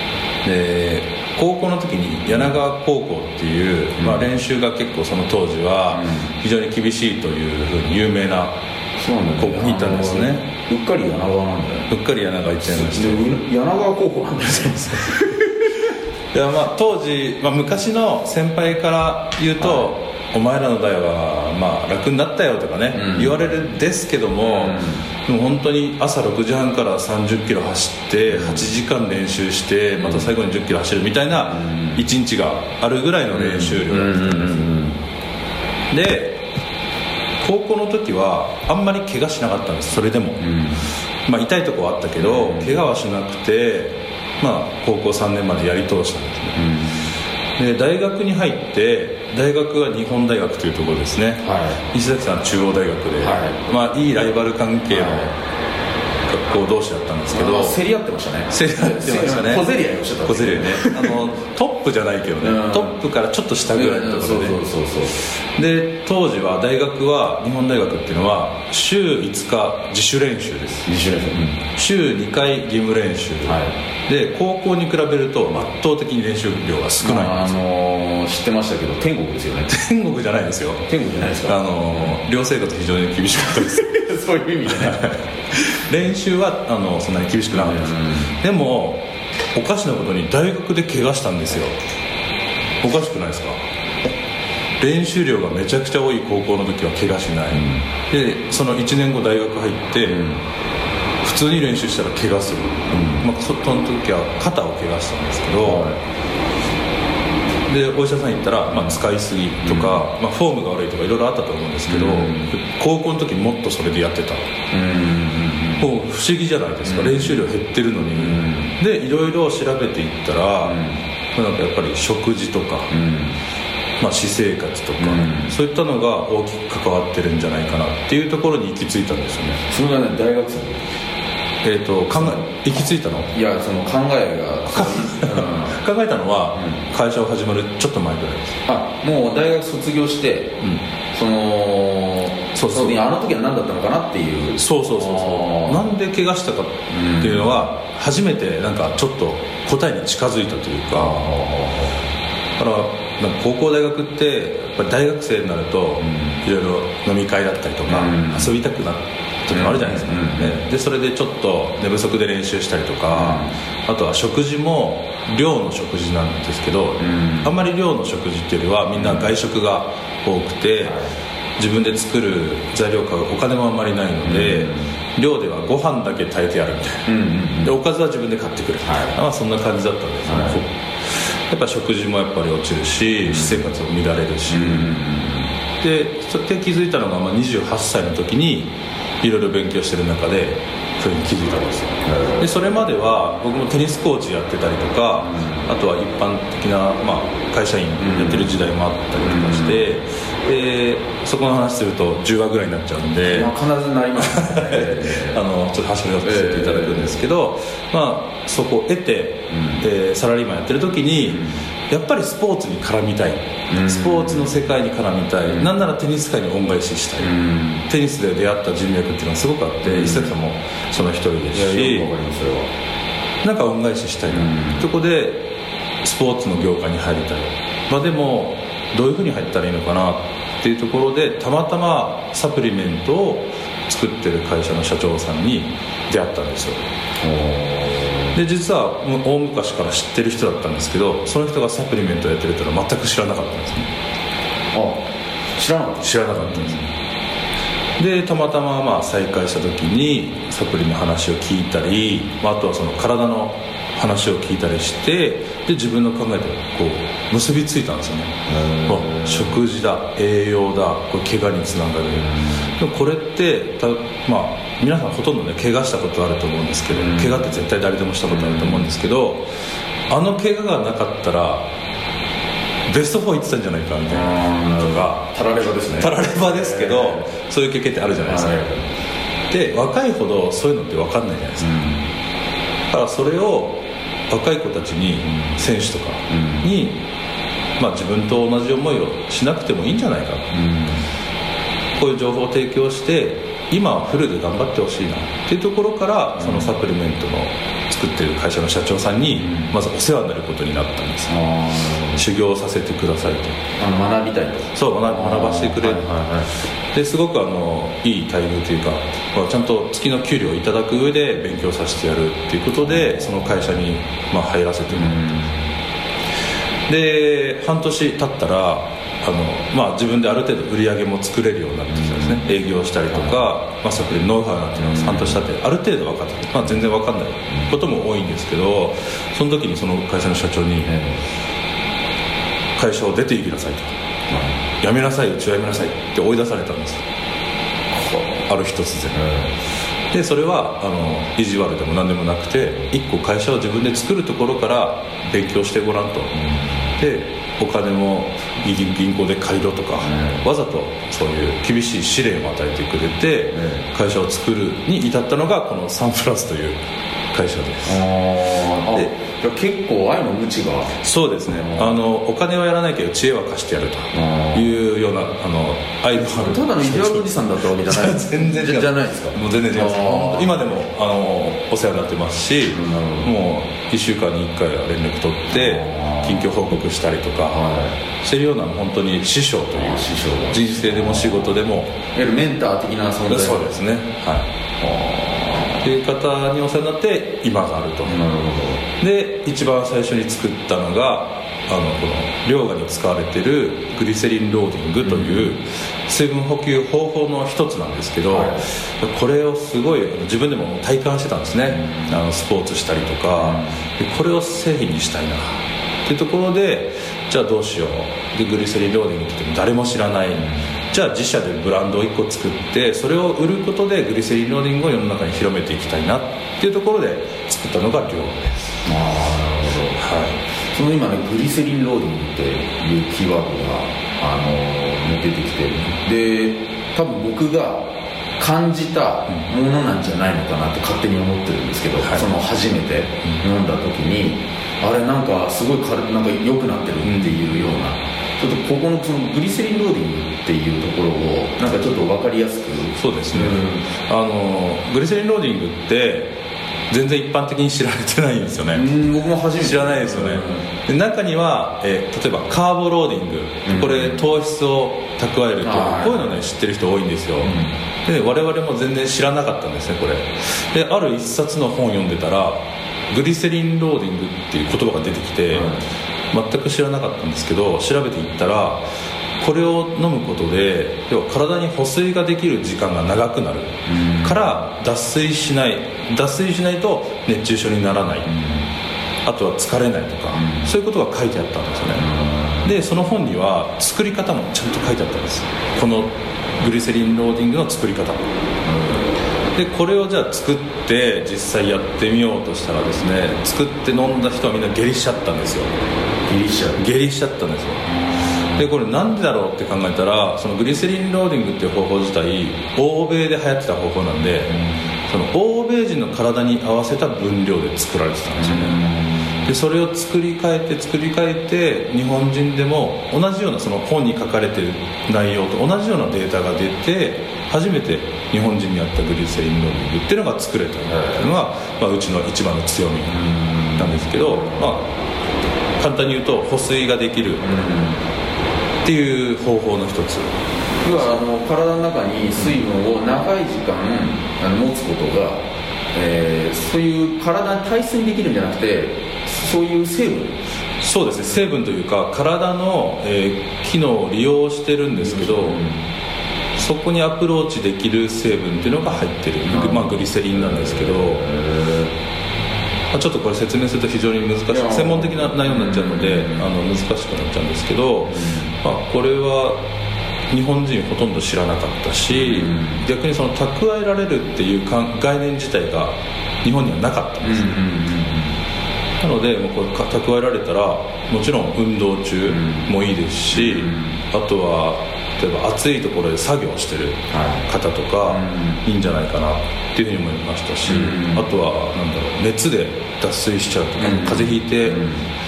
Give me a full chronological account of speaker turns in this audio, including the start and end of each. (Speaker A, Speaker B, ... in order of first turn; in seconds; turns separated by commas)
Speaker A: 0.4-8.6, Speaker B: 4.0-4.3, Speaker B: 5.9-6.3, Speaker B: 9.0-11.9, Speaker A: 9.4-10.4, Speaker A: 11.9-13.2, Speaker B: 12.7-15.7, Speaker A: 16.3-34.7, Speaker B: 19.6-19.9, Speaker B: 22.9-23.4, Speaker B: 24.4-25.0, Speaker B: 28.3-28.7, Speaker B: 30.0-30.3, Speaker B: 31.5-32.0, Speaker B: 33.3-35.0, Speaker A: 35.9-36.4, Speaker A: 37.4-40.4, Speaker B: 40.4-40.9, Speaker A: 41.3-46.6, Speaker B: 42.2-42.8, Speaker B: 46.5-47.1, Speaker A: 47.6-55.3, Speaker B: 51.4-51.8, Speaker B: 53.2-53.6, Speaker B: 54.9-55.3, Speaker A: 56.3-57.8, Speaker B: 57.3-61.2, Speaker A: 58.5-59.7, Speaker A: 60.2-64.6, Speaker B: 62.4-63.0, Speaker B: 63.7-65.2, Speaker A: 65.5-70.9, Speaker B: 70.9-71.6, Speaker A: 71.8-77.6, Speaker B: 73.5-73.8, Speaker B: 77.0-79.7, Speaker A: 79.7-80.8, Speaker B: 80.9-82.2, Speaker A: 81.5-83.9, Speaker B: 83.5-85.1, Speaker A: 84.7-91.8, Speaker B: 87.5-88.3, Speaker A: 92.8-93.6, Speaker A: 94.8-100.2, Speaker B: 97.5-97.9, Speaker B: 100.0-100.4, Speaker A: 101.2-105.9, Speaker B: 102.9-103.2, Speaker B: 105.6-106.0, Speaker A: 107.7-114.5, Speaker B: 108.7-109.0, Speaker B: 109.6-110.0, Speaker B: 111.9-112.5, Speaker B: 114.7-115.9, Speaker A: 115.8-120.8, Speaker B: 116.8-117.5, Speaker B: 118.2-118.8, Speaker B: 120.6-121.0, Speaker A: 121.3-122.9, Speaker B: 122.9-123.4, Speaker A: 124.0-129.6, Speaker B: 125.0-125.5, Speaker B: 129.7-130.8, Speaker A: 131.6-133.3, Speaker B: 133.3-135.8, Speaker A: 134.7-138.6, Speaker B: 136.5-136.8, Speaker B: 138.7-140.6, Speaker B: 141.1-145.8, Speaker A: 142.6-143.0, Speaker A: 144.6-151.2, Speaker B: 146.9-147.5, Speaker B: 150.9-152.0, Speaker A: 152.6-171.0, Speaker B: 156.0-156.4, Speaker B: 157.9-158.5, Speaker B: 159.5-160.6, Speaker B: 163.1-163.6, Speaker B: 167.0-167.5, Speaker B: 168.9-169.3, Speaker B: 170.8-171.1, Speaker A: 171.6-177.1, Speaker B: 174.2-174.9, Speaker B: 177.1-177.8, Speaker A: 177.6-185.0, Speaker B: 178.8-179.2, Speaker B: 180.3-180.6, Speaker B: 183.2-183.7, Speaker B: 184.5-185.5, Speaker A: 185.8-203.5, Speaker B: 192.1-192.4, Speaker B: 195.2-195.6, Speaker B: 198.0-198.5, Speaker B: 199.2-199.8, Speaker B: 203.3-205.4, Speaker A: 204.2-217.3, Speaker B: 206.2-207.2, Speaker B: 209.5-209.8, Speaker B: 211.3-211.6, Speaker B: 213.7-214.6, Speaker B: 215.4-215.7, Speaker B: 217.2-217.9, Speaker A: 217.9-222.1, Speaker B: 219.8-220.3, Speaker B: 221.5-222.7, Speaker A: 223.4-225.4, Speaker B: 224.3-224.9, Speaker A: 226.0-236.8, Speaker B: 237.2-238.4, Speaker A: 238.3-243.9, Speaker B: 244.7-245.1, Speaker B: 245.6-246.8, Speaker A: 246.0-246.9, Speaker A: 248.0-269.5, Speaker B: 258.5-259.6, Speaker B: 262.2-262.7, Speaker B: 266.9-267.6, Speaker B: 268.3-268.9, Speaker A: 270.1-271.7, Speaker A: 272.9-275.2, Speaker B: 274.1-277.3, Speaker A: 276.0-278.6, Speaker B: 278.2-278.9, Speaker A: 279.5-281.7, Speaker B: 281.6-282.1, Speaker A: 282.9-287.0, Speaker B: 285.3-285.6, Speaker B: 286.3-286.7, Speaker A: 287.8-290.5, Speaker B: 290.5-291.1, Speaker A: 291.9-301.3, Speaker B: 296.4-296.8, Speaker B: 299.4-299.7, Speaker B: 301.3-302.2, Speaker A: 302.2-303.6, Speaker B: 303.8-306.5, Speaker A: 304.7-306.1, Speaker A: 306.9-315.2, Speaker B: 312.9-313.8, Speaker B: 314.9-315.7, Speaker A: 316.9-330.9, Speaker B: 321.9-322.4, Speaker B: 324.8-325.4, Speaker B: 330.8-331.2, Speaker A: 332.8-333.9, Speaker B: 334.3-334.6, Speaker A: 334.8-337.0, Speaker B: 337.9-338.5, Speaker A: 338.5-339.2, Speaker B: 339.1-339.6, Speaker A: 340.1-346.3, Speaker B: 346.3-346.9, Speaker A: 347.0-356.8, Speaker B: 350.0-350.5, Speaker B: 353.5-353.9, Speaker A: 357.3-358.0, Speaker B: 357.9-362.0, Speaker A: 361.0-377.6, Speaker B: 364.1-364.7, Speaker B: 366.2-370.5, Speaker B: 372.7-373.3, Speaker B: 375.5-376.5, Speaker B: 377.5-378.0, Speaker A: 378.2-381.9, Speaker B: 379.7-381.5, Speaker B: 382.1-383.7, Speaker A: 383.3-384.5, Speaker B: 384.8-385.8, Speaker A: 385.8-388.2, Speaker B: 388.1-388.9, Speaker A: 389.0-418.7, Speaker B: 395.0-395.5, Speaker B: 398.3-398.6, Speaker B: 401.7-402.0, Speaker B: 403.4-403.8, Speaker B: 410.4-410.6, Speaker B: 418.9-420.0, Speaker A: 420.0-420.4, Speaker B: 420.7-427.9, Speaker B: 428.4-443.9, Speaker A: 432.0-432.3, Speaker A: 437.0-437.7, Speaker A: 443.0-446.4, Speaker A: 446.9-448.9, Speaker B: 448.7-450.6, Speaker A: 449.6-465.8, Speaker B: 453.6-454.2, Speaker B: 455.6-456.4, Speaker B: 457.4-457.7, Speaker B: 465.5-465.8, Speaker A: 466.3-468.8, Speaker A: 469.4-478.3, Speaker B: 473.9-474.4, Speaker B: 478.3-478.7, Speaker A: 479.2-482.1, Speaker B: 480.3-480.7, Speaker B: 482.0-482.7, Speaker A: 482.6-488.2, Speaker B: 488.6-489.1, Speaker A: 489.6-495.7, Speaker B: 496.3-496.8, Speaker A: 496.8-497.8, Speaker A: 498.6-504.5, Speaker B: 504.5-504.8, Speaker A: 505.1-508.8, Speaker B: 508.4-509.5, Speaker A: 509.5-523.1, Speaker B: 520.9-521.2, Speaker B: 523.1-524.6, Speaker A: 523.8-524.9, Speaker A: 525.8-527.5, Speaker B: 527.4-528.0, Speaker A: 528.8-530.3, Speaker B: 530.8-535.4, Speaker B: 535.9-540.4, Speaker A: 540.8-545.6, Speaker B: 545.1-545.8, Speaker A: 546.5-551.2, Speaker B: 549.4-551.9, Speaker A: 552.9-559.6, Speaker B: 554.5-556.5, Speaker B: 558.1-558.5, Speaker A: 560.3-567.6, Speaker B: 562.1-562.8, Speaker B: 567.2-568.4, Speaker A: 569.0-584.8, Speaker B: 572.3-572.7, Speaker B: 573.3-574.0, Speaker B: 577.1-577.5, Speaker B: 578.1-578.6, Speaker B: 580.7-581.2, Speaker B: 583.8-585.1